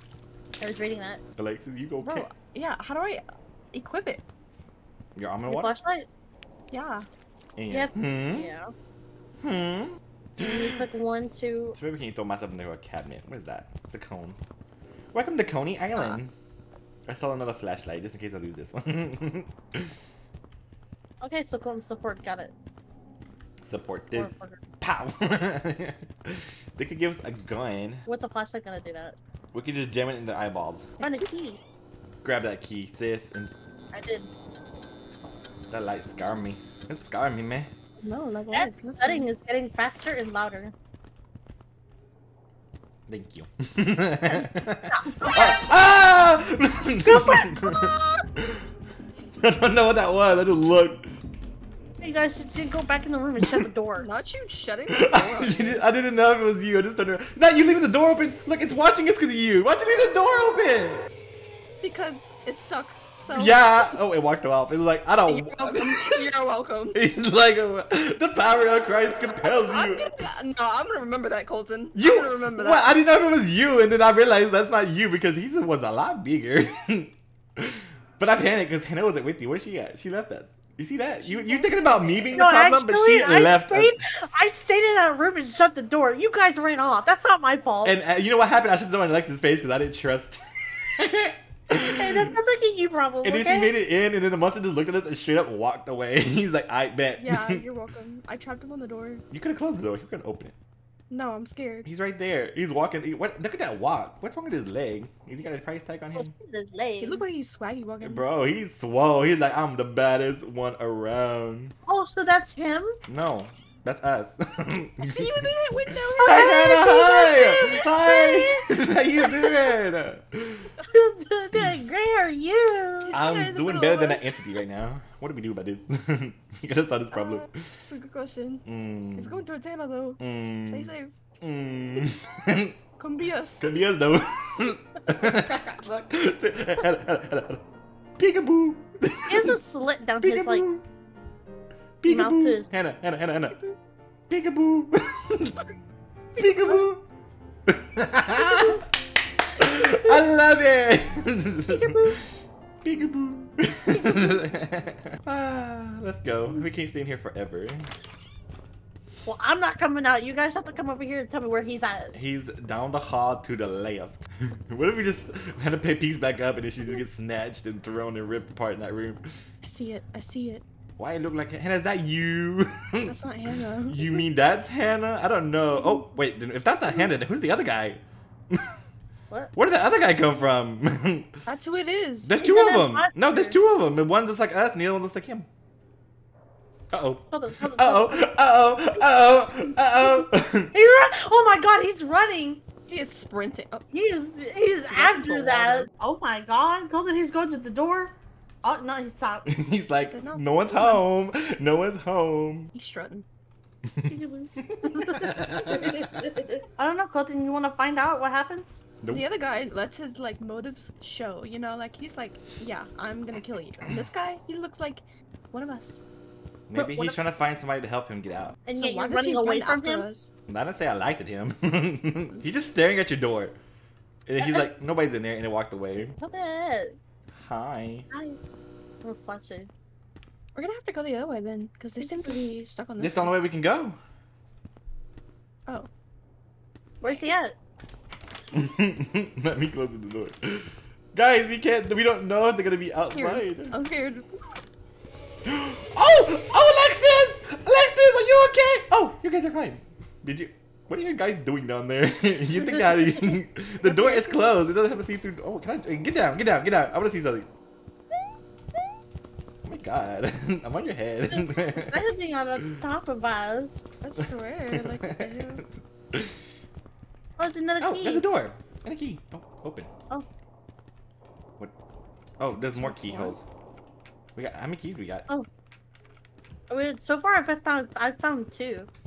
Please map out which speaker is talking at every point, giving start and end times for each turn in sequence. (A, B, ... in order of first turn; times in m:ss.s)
0:00.6-0:01.2 A
0:01.4-0:02.3 B
0:02.0-0:04.2 C
0:05.2-0:05.7 B
0:05.5-0:06.1 A
0:06.7-0:07.1 C
0:07.6-0:08.5 B
0:07.7-0:08.7 A
0:09.4-0:10.8 B
0:10.4-0:11.8 A
0:11.8-0:14.4 B
0:15.1-0:16.3 B
0:17.1-0:19.9 B
0:21.2-0:22.5 A
0:23.6-0:28.1 B
0:24.1-0:24.6 A
0:28.1-0:29.2 A
0:29.5-0:30.9 B
0:31.0-0:31.3 C
0:31.0-0:31.6 A
0:32.2-0:33.5 B
0:33.9-0:34.3 A
0:35.7-0:37.7 B
0:38.0-0:39.3 C
0:38.5-0:40.7 A
0:43.1-0:48.7 B
0:44.2-0:45.7 A
0:47.0-0:47.8 A
0:49.4-0:51.1 B
0:52.0-0:54.1 A
0:54.0-0:55.8 C
0:54.9-1:01.1 B
1:01.8-1:03.9 C
1:03.3-1:06.3 B
1:05.3-1:07.0 C
1:06.9-1:10.1 B
1:09.6-1:12.9 C
1:12.0-1:24.0 B
1:21.2-1:22.6 C
1:22.3-1:28.0 A
1:27.8-1:32.3 B
1:31.8-1:33.7 A
1:33.2-1:37.6 B
1:37.2-1:39.2 C
1:39.3-1:40.6 B
1:41.1-1:41.9 C
1:41.8-1:46.3 B
1:46.2-1:47.2 A
1:47.0-1:48.2 C
1:48.0-1:51.8 B
1:51.9-1:53.0 A
1:53.1-1:55.4 B
1:55.0-1:57.4 C
1:56.2-1:58.7 A
1:56.2-2:00.7 B
1:59.2-1:59.7 A
2:00.8-2:04.2 A
2:01.6-2:01.8 B
2:03.0-2:04.4 C
2:03.1-2:07.6 B
2:07.1-2:11.1 C
2:08.6-2:09.4 B
2:10.2-2:12.8 B
2:13.0-2:13.6 C
2:13.6-2:17.6 B
2:18.2-2:19.6 B
2:19.3-2:20.6 A
2:20.2-2:20.8 B
2:22.0-2:23.6 B
2:22.1-2:22.7 A
2:24.3-2:25.7 B
2:26.4-2:27.0 B
2:26.4-2:26.9 A
2:27.7-2:28.8 B
2:29.6-2:32.1 B
2:29.8-2:30.2 A
2:31.7-2:32.2 A
2:32.8-2:37.9 B
2:33.9-2:34.4 A
2:39.2-2:42.1 A
2:42.1-2:49.2 B
2:49.6-2:50.6 C
2:51.0-2:53.2 B
2:53.0-2:54.3 C
2:53.9-2:58.8 B
2:59.6-3:01.3 B
3:01.5-3:02.3 C
3:02.2-3:05.5 B
3:02.4-3:03.6 A
3:06.9-3:10.7 B
3:07.3-3:08.4 A
3:10.0-3:12.6 A
3:12.9-3:13.8 C
3:13.9-3:19.5 A
3:14.9-3:15.9 C
3:19.5-3:22.7 B
3:20.0-3:21.0 C
3:22.7-3:23.3 C
3:23.9-3:26.0 B
3:24.1-3:28.8 A
3:29.1-3:36.0 C
3:36.7-3:38.6 B
3:36.7-3:37.2 A
3:38.7-3:40.1 A
3:38.8-3:40.3 C
3:40.5-3:43.6 B
3:44.3-3:46.2 B
3:44.4-3:44.7 A
3:46.2-3:47.0 A
3:47.3-3:48.1 B
3:48.1-3:48.4 A
3:49.0-3:49.7 A
3:50.6-3:53.4 C
3:52.0-3:52.4 A
3:53.0-3:54.0 B
3:57.0-3:57.3 C
3:57.0-3:57.5 A
3:58.5-4:03.8 B
4:03.1-4:04.5 C
4:05.5-4:17.5 B
4:13.8-4:14.5 C
4:19.6-4:22.0 B
4:21.3-4:23.8 A
4:24.0-4:25.6 C
4:24.2-4:26.3 B
4:27.4-4:28.3 A
4:27.8-4:29.9 B
4:32.4-4:33.4 B
4:32.8-4:33.4 C
4:34.4-4:35.3 B
4:36.7-4:38.9 A